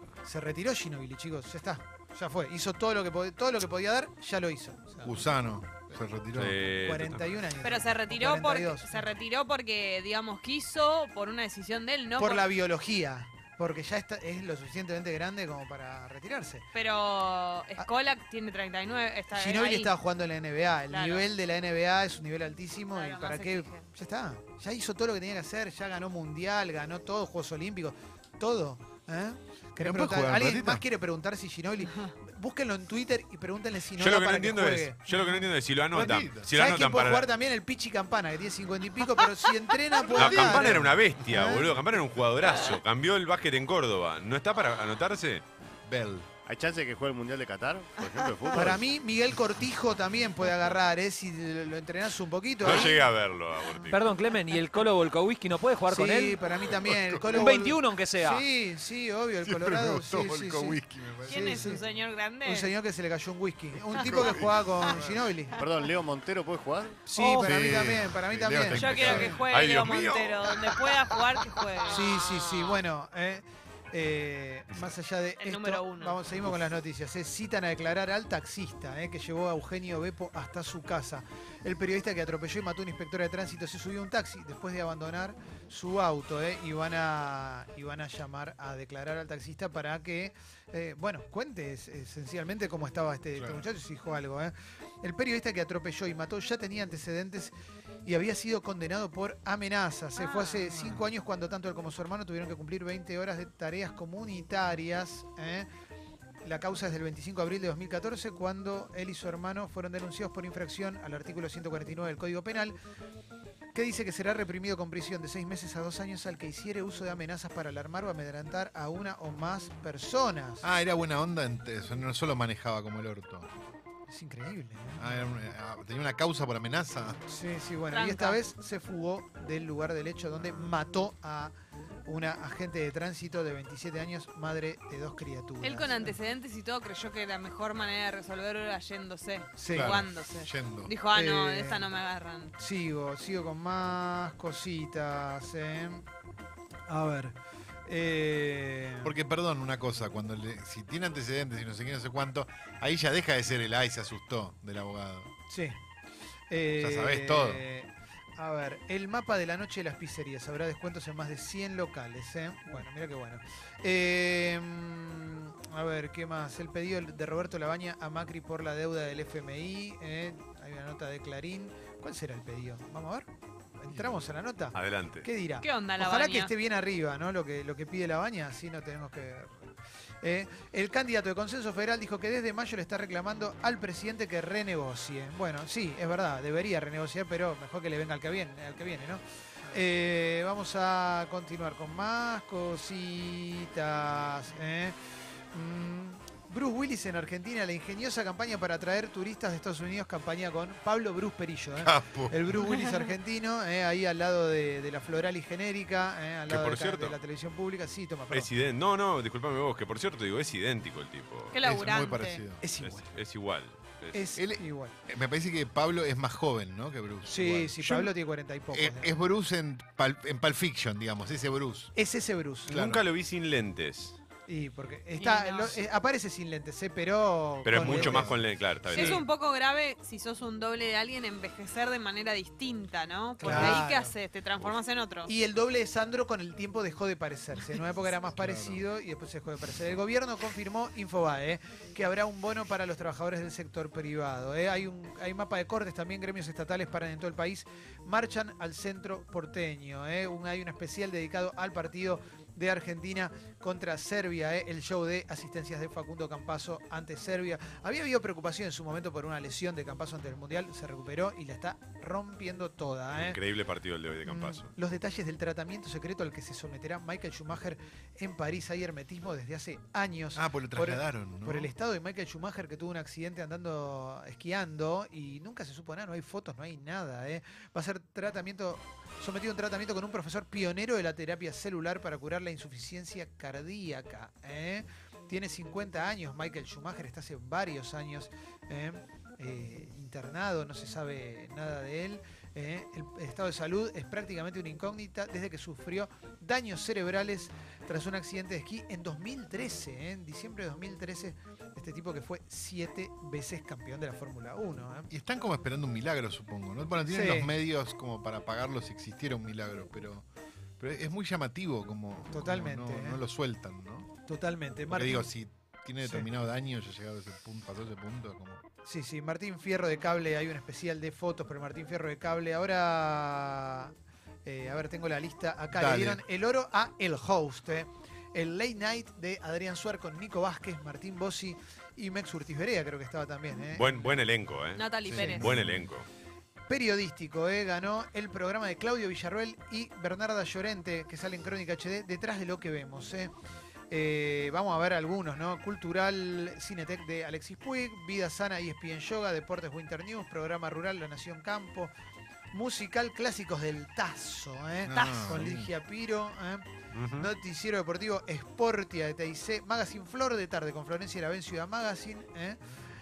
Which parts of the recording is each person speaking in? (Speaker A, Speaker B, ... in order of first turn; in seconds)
Speaker A: 0.2-5.2, 6.8-9.1, 12.2-16.6, 19.3-35.4, 36.5-41.6, 48.5-53.0, 55.9-61.8, 62.4-65.5, 67.1-69.3, 71.9-97.5, 98.0-105.7, 106.4-112.8, 113.7-120.7, 124.1-125.3, 127.3-131.5, 132.1-136.2, 139.6-140.0, 141.1-141.9, 142.6-146.0, 146.9-147.3, 147.9-149.1, 155.5-155.8, 156.5-173.3, 173.8-179.6, 180.2-194.9, 195.5-208.5, 212.6-213.1, 214.1-214.9, 217.3-219.1, 221.9-222.7, 224.5-228.4, 228.9-229.2, 233.4-234.1, 235.2-263.4, 264.2-305.1, 307.1-307.5, 312.3-313.2, 314.3-315.3, 316.0-316.3, 318.8-323.9, 324.4-334.1, 336.7-343.3, 343.9-351.9, 352.5-362.6
Speaker B: 5.0-6.6, 29.8-30.8, 35.9-36.5, 40.2-41.2, 45.8-46.3, 56.7-57.4, 59.4-61.8, 63.9-65.2, 67.4-69.9, 93.3-93.7, 120.6-123.5, 125.0-127.2, 139.7-140.9, 149.0-155.3, 156.7-157.6, 173.9-174.2, 201.8-202.5, 211.6-212.6, 214.3-218.1, 218.7-221.9, 222.7-223.0, 227.8-228.4, 238.2-238.8, 270.3-271.7, 305.1-310.2, 310.8-314.1, 314.9-318.6, 325.7-326.2, 335.1-335.9, 354.8-355.7
Speaker C: 6.3-7.4, 34.0-37.3, 40.1-45.4, 52.6-54.1, 68.8-70.7, 174.7-175.2, 206.5-207.2, 208.3-211.6, 212.8-214.2, 222.7-224.2, 227.7-229.2, 233.4-233.8, 263.1-264.7, 333.7-336.1, 356.9-357.3
Speaker D: 7.6-12.5, 16.7-19.9, 20.9-21.3, 22.9-23.9, 48.0-48.4, 61.2-62.7, 68.7-72.3, 75.4-76.2, 100.2-100.8, 127.9-128.4, 135.6-142.5, 175.6-176.5, 211.5-212.4, 225.2-225.8, 228.9-235.3, 334.8-335.5, 354.9-355.3
Speaker E: 46.5-48.8, 65.6-67.1
Speaker F: 53.9-56.4, 57.3-58.4